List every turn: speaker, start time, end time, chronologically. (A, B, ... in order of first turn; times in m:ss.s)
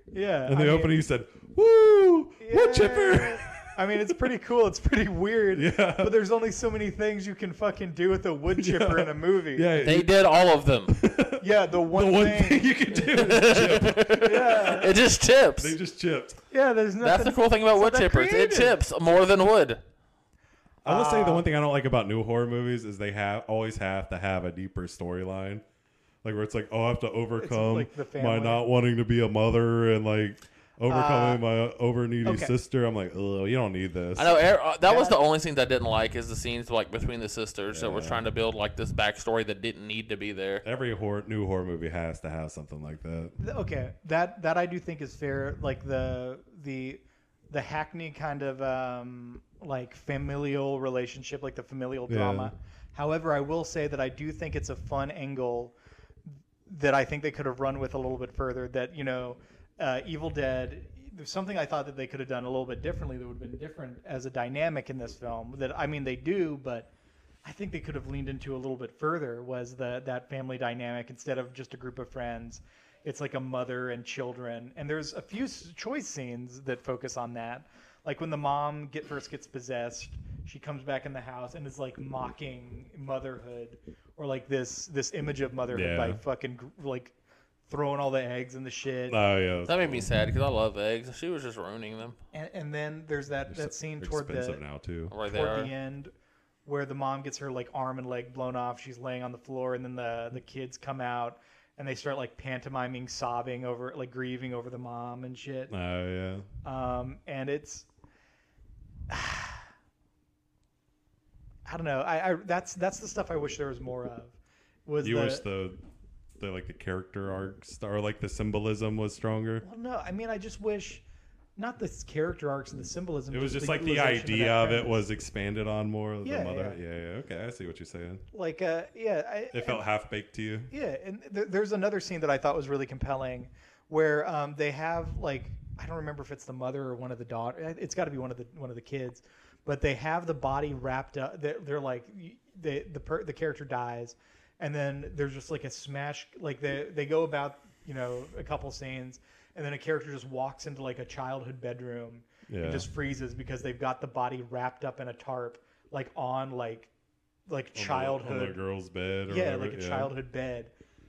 0:00.1-0:01.0 A
0:00.5-0:03.7 B
0:02.4-0:09.7 A
0:05.5-0:06.1 B
0:08.6-0:10.2 B
0:09.8-0:11.0 C
0:10.9-0:15.0 B
0:11.4-0:13.1 A
0:13.1-0:15.8 C
0:14.2-0:15.0 A
0:15.6-0:16.4 B
0:16.5-0:18.8 A
0:17.0-0:19.8 C
0:20.8-0:21.5 A
0:20.8-0:25.6 B
0:26.2-0:34.4 B
0:27.4-0:28.6 A
0:30.9-0:31.4 A
0:32.2-0:32.5 A
0:34.2-0:40.6 C
0:34.8-0:35.2 A
0:37.7-0:38.2 B
0:40.6-0:43.4 B
0:43.4-0:55.7 A
0:52.1-0:52.5 B
0:56.7-1:06.9 A
1:07.4-1:27.1 A
1:25.7-1:26.2 B
1:27.7-1:29.2 A
1:29.1-1:30.1 B
1:29.7-1:32.2 C
1:32.3-1:34.6 A
1:33.5-1:35.1 B
1:35.1-1:35.7 C
1:35.2-1:36.1 A
1:36.7-1:45.7 A
1:45.7-1:46.5 B
1:46.6-1:47.9 A
1:49.1-1:49.7 A
1:51.7-1:55.4 A
1:55.0-1:55.8 B
1:56.4-1:59.6 B
1:59.6-2:01.0 A
2:01.6-2:05.0 A
2:03.3-2:08.2 B
2:06.2-2:06.8 A
2:08.3-2:09.8 A
2:09.5-2:10.7 B
2:10.7-2:36.9 A
2:32.5-2:32.9 B
2:37.5-2:38.6 A
2:37.8-2:40.1 B
2:39.3-2:40.7 A